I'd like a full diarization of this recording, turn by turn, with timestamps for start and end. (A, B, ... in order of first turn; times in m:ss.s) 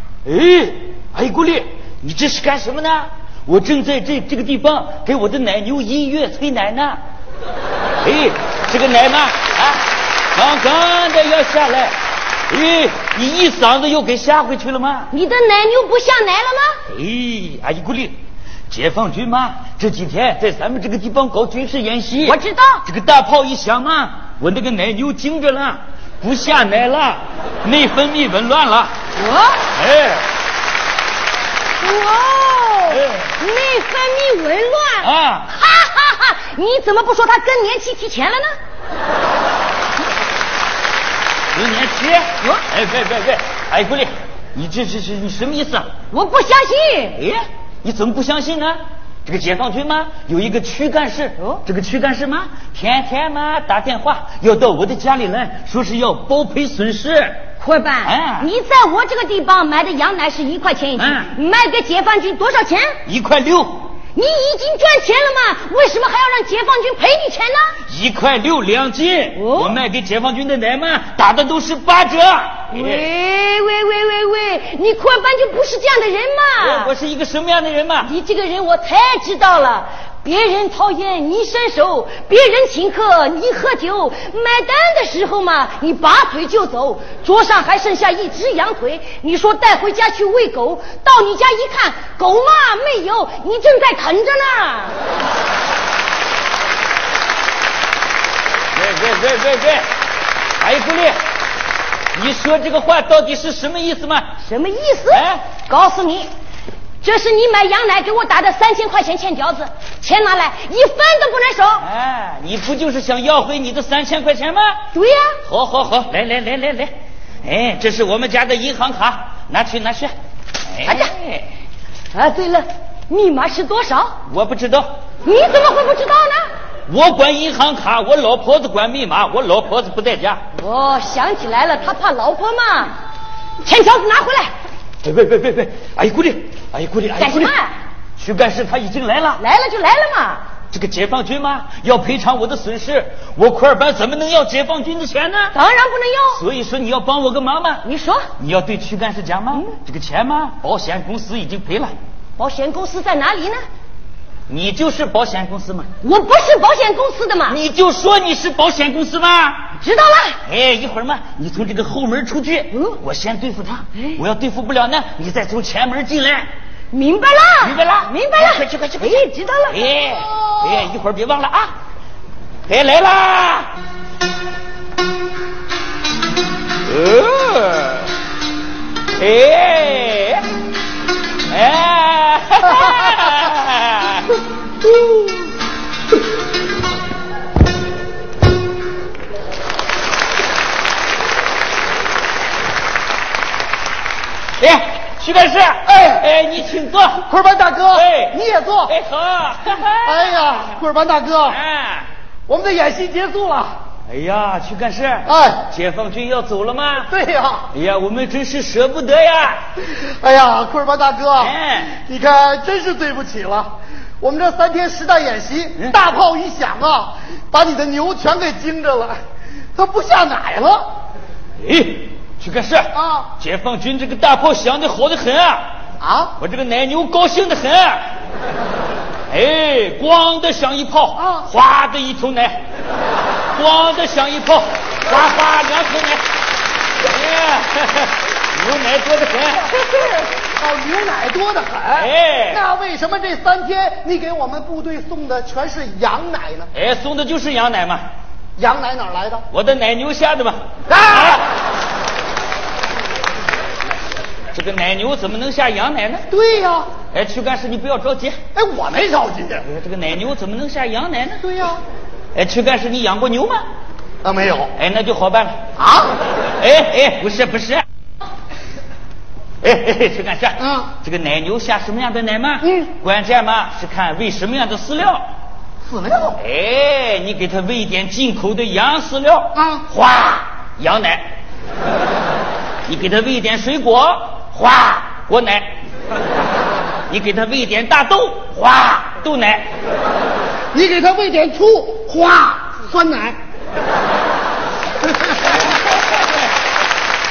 0:00.2-0:07.0 A
0:08.0-0:09.8 A
0:10.4-0:11.9 A
0:12.5-0:15.1 A
0:15.1-0:16.8 B
0:16.9-0:18.2 A
0:18.7-0:28.9 A
0:22.2-0:22.8 B
0:29.2-0:29.6 B
0:29.7-0:30.2 A
0:31.8-0:38.6 B
0:32.9-0:33.3 A
0:35.0-0:35.5 A
0:41.5-0:45.9 A
0:46.1-0:47.2 B
0:47.2-0:57.4 A
0:57.6-1:03.0 B
0:58.0-0:58.5 A
1:01.0-1:01.3 A
1:03.1-1:03.9 A
1:04.2-1:07.8 B
1:07.9-1:13.1 A
1:09.4-1:09.8 B
1:12.7-1:16.9 B
1:16.6-1:18.1 A
1:18.0-1:35.0 B
1:38.7-1:39.9 A
1:40.6-1:41.2 A
1:42.1-1:44.3 A
1:44.4-1:46.3 B
1:45.1-1:45.4 A
1:47.0-1:51.9 B
1:51.8-1:54.8 A
1:54.9-1:55.4 B
1:55.5-1:56.9 A
1:57.4-2:00.1 A
2:00.7-2:01.5 A
2:02.1-2:04.2 B
2:04.3-2:04.9 A
2:05.2-2:06.5 B
2:06.9-2:10.4 A
2:10.6-2:13.0 B
2:13.6-2:14.5 B
2:15.0-2:17.5 A
2:17.1-2:17.8 B
2:18.2-2:19.4 A
2:19.4-2:20.4 B
2:20.7-2:25.6 A
2:25.5-2:26.4 B
2:26.3-2:27.8 A
2:27.8-2:28.3 B
2:28.4-2:31.9 A
2:32.4-2:33.6 B
2:34.5-2:35.9 A
2:36.0-2:37.6 B
2:37.5-2:39.7 A
2:39.8-2:40.4 B
2:40.4-2:46.5 A
2:46.9-2:49.8 B
2:47.6-2:51.7 A
2:52.7-2:53.7 A
2:56.9-2:58.1 A
2:59.2-3:00.4 A
3:01.5-3:04.3 A
3:14.6-3:17.3 A
3:15.9-3:16.3 C
3:17.2-3:18.9 C
3:17.9-3:20.8 A
3:20.0-3:21.6 C
3:21.5-3:22.1 A
3:22.5-3:23.8 C
3:24.1-3:27.1 A
3:25.2-3:25.6 C
3:27.1-3:27.7 C
3:27.7-3:29.6 A
3:29.9-3:39.2 C
3:31.4-3:32.0 A
3:39.8-3:40.9 C
3:41.6-3:45.7 A
3:42.9-3:43.3 C
3:46.0-3:46.4 C
3:46.4-3:48.0 A
3:49.3-3:52.6 A
3:51.2-3:51.5 C
3:53.6-3:56.2 A
3:57.0-3:59.8 A
3:59.8-4:06.7 C
4:01.9-4:02.6 A
4:06.7-4:08.1 A
4:08.6-4:09.5 C
4:09.5-4:10.6 A
4:10.9-4:11.4 C
4:14.5-4:16.3 A
4:16.3-4:16.9 C
4:17.1-4:18.4 A
4:18.6-4:19.7 C
4:19.6-4:21.4 A
4:21.4-4:21.8 C
4:22.4-4:23.6 A
4:24.2-4:24.7 C
4:24.8-4:25.6 A
4:25.8-4:26.2 C
4:26.6-4:27.8 A
4:29.6-4:35.2 A
4:30.6-4:30.9 C
4:32.6-4:32.9 C
4:35.9-4:36.4 C
4:36.4-4:41.2 A
4:39.5-4:39.9 C
4:42.9-4:45.7 A
4:47.1-4:49.7 A
4:50.7-4:53.4 C